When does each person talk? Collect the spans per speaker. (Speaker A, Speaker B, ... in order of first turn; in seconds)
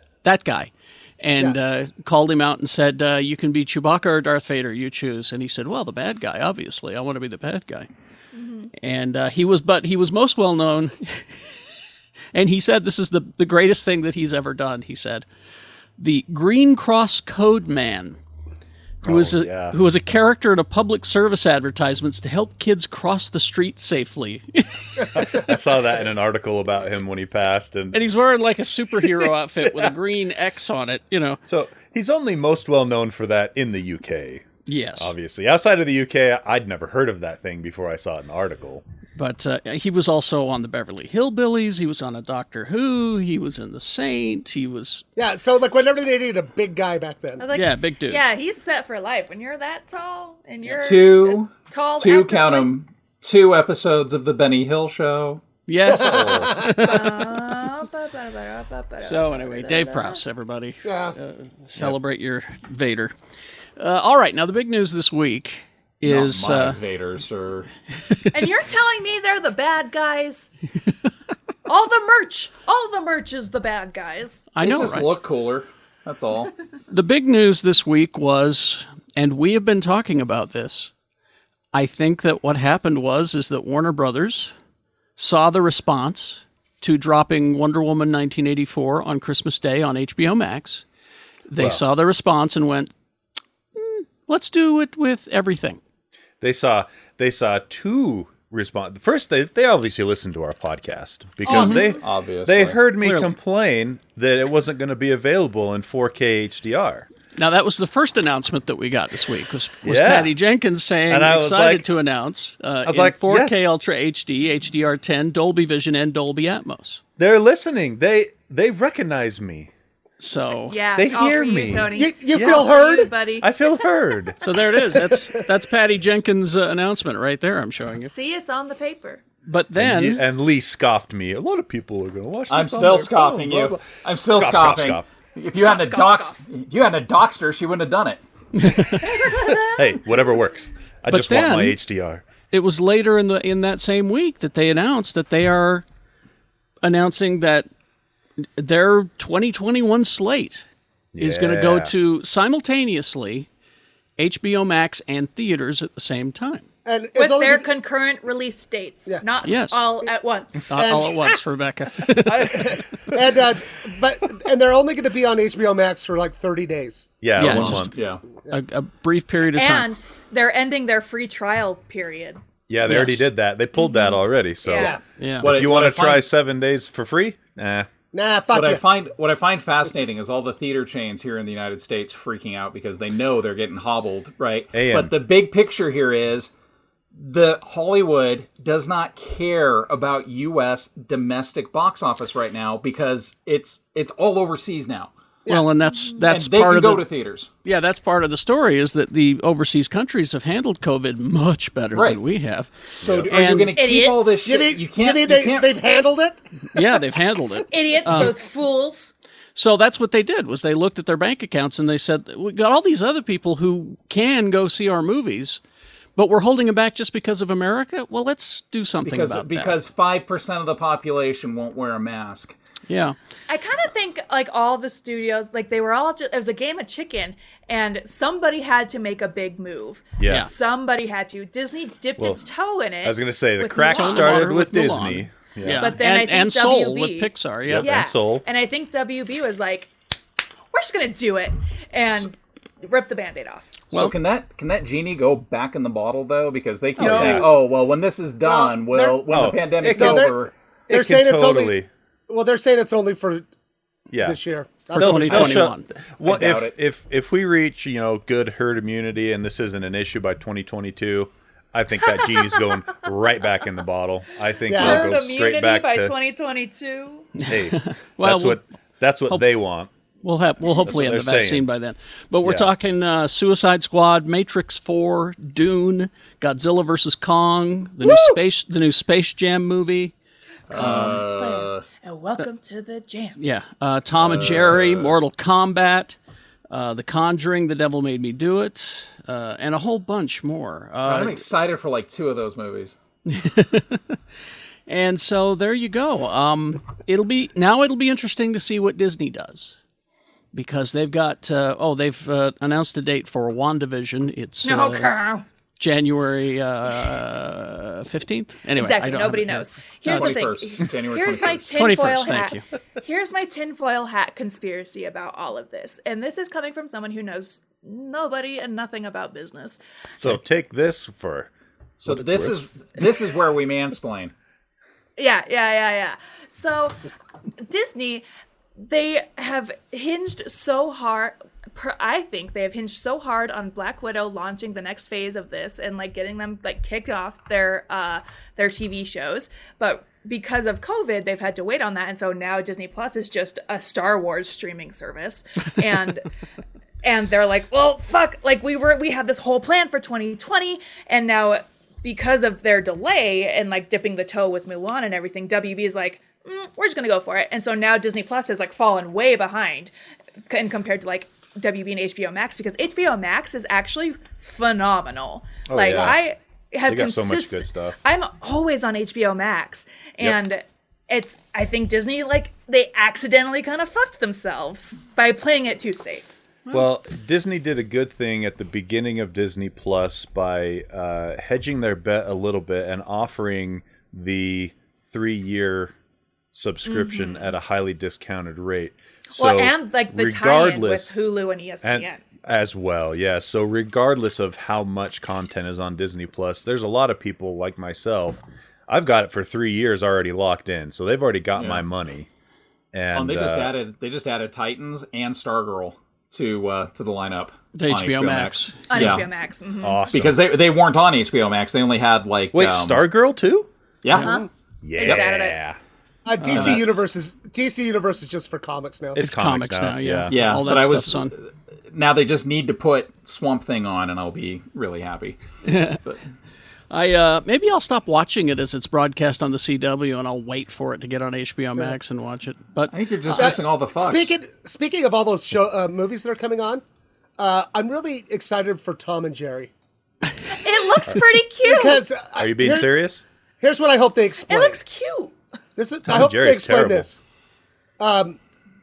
Speaker A: 0.2-7.9, 8.8-11.3, 12.3-15.3, 16.0-18.2, 19.1-25.4, 27.9-31.4, 34.7-35.1, 39.2-45.1, 47.5-48.2, 55.7-57.3, 59.0-63.1, 63.8-66.8, 74.5-75.1, 76.9-80.9, 81.7-84.5, 85.2-90.8, 91.5-92.9, 93.8-95.8, 101.5-101.8, 103.0-103.3, 107.4-117.0, 120.2-120.8, 124.4-128.1, 129.5-130.2, 138.6-139.3, 141.1-141.8, 142.5-145.8, 146.8-147.7, 148.4-150.7, 151.2-153.5, 154.2-156.7, 159.4-159.9, 160.7-162.8, 167.4-169.9, 172.9-173.3, 175.2-175.5, 195.5-197.1, 197.6-202.7, 203.3-203.8, 206.7-208.4, 209.6-215.6, 216.2-219.8, 222.9-223.2, 230.3-230.5, 233.9-237.9, 254.9-255.9, 267.4-268.6, 270.2-280.1, 280.8-281.2, 283.4-286.2, 286.7-291.4, 293.3-294.2, 294.9-299.8, 300.5-305.1, 305.8-310.4, 311.7-312.6, 407.8-409.2, 416.4-416.7, 419.2-421.3, 425.6-426.1, 426.9-433.0
Speaker B: 8.3-8.7, 47.4-52.7, 56.8-60.2, 68.3-70.5, 71.7-74.5, 101.5-102.0, 120.7-123.5, 128.0-129.2, 135.5-136.4, 139.1-139.8, 157.2-160.8, 169.5-172.4, 173.8-175.0, 196.0-196.3, 203.8-204.5, 207.7-209.1, 223.5-234.6, 235.8-239.9, 240.7-243.8, 262.2-262.6, 264.7-267.3, 280.7-283.4, 304.6-305.4, 308.8-319.8, 325.2-326.9, 327.6-328.3, 328.8-346.3, 347.0-359.9, 360.5-376.4, 386.9-387.5, 389.4-392.2, 408.9-410.1, 414.1-415.6, 440.5-442.1, 444.5-445.4
Speaker C: 19.1-19.8, 25.1-28.0, 31.5-38.8, 56.0-56.6, 96.4-107.1, 109.8-110.3, 111.1-111.9, 112.9-113.7, 117.2-119.7, 121.0-122.8, 123.4-124.4, 129.8-135.1, 139.5-142.2, 151.2-151.9, 162.2-163.0, 167.2-168.0, 172.7-177.9, 184.7-185.1, 203.0-203.3, 230.2-230.5, 232.2-232.4, 233.0-236.0, 237.7-238.5, 247.0-247.5, 249.3-250.4, 250.9-251.9, 254.1-254.4, 254.9-266.1, 267.5-269.9, 270.8-271.7, 272.4-272.7, 320.2-321.5, 322.1-322.7, 365.7-366.2, 366.9-368.0, 376.7-385.9, 386.5-391.1, 391.8-402.3, 402.9-403.7, 409.8-410.4, 412.5-413.7, 414.8-415.8, 419.2-420.6, 442.4-443.2, 446.1-447.1
Speaker D: 45.2-47.5, 55.9-56.9, 60.8-61.2, 121.9-123.1, 125.0-125.3, 156.8-157.7, 160.7-161.2, 162.5-167.1, 174.7-175.0, 178.1-178.8, 204.4-207.0, 248.4-251.8, 252.3-253.5, 254.2-255.7, 264.7-265.1, 414.2-414.5, 416.2-419.3, 433.3-436.8, 437.4-439.7, 441.6-443.0, 443.6-444.8, 445.8-447.2, 448.0-448.4
Speaker E: 50.7-55.4, 66.0-67.7, 74.6-76.5, 102.0-102.8, 132.5-138.2, 167.4-168.2, 175.4-176.3, 178.5-186.5, 187.2-195.1, 196.3-197.5, 201.9-202.2, 203.0-205.7, 219.0-222.6, 243.9-250.5, 256.2-256.7, 280.7-281.9, 284.2-285.1, 291.1-293.0, 310.1-311.7, 322.0-324.3, 401.6-401.8, 403.1-409.3, 410.1-413.1, 414.0-414.4, 416.5-416.8, 420.3-425.4, 432.9-434.3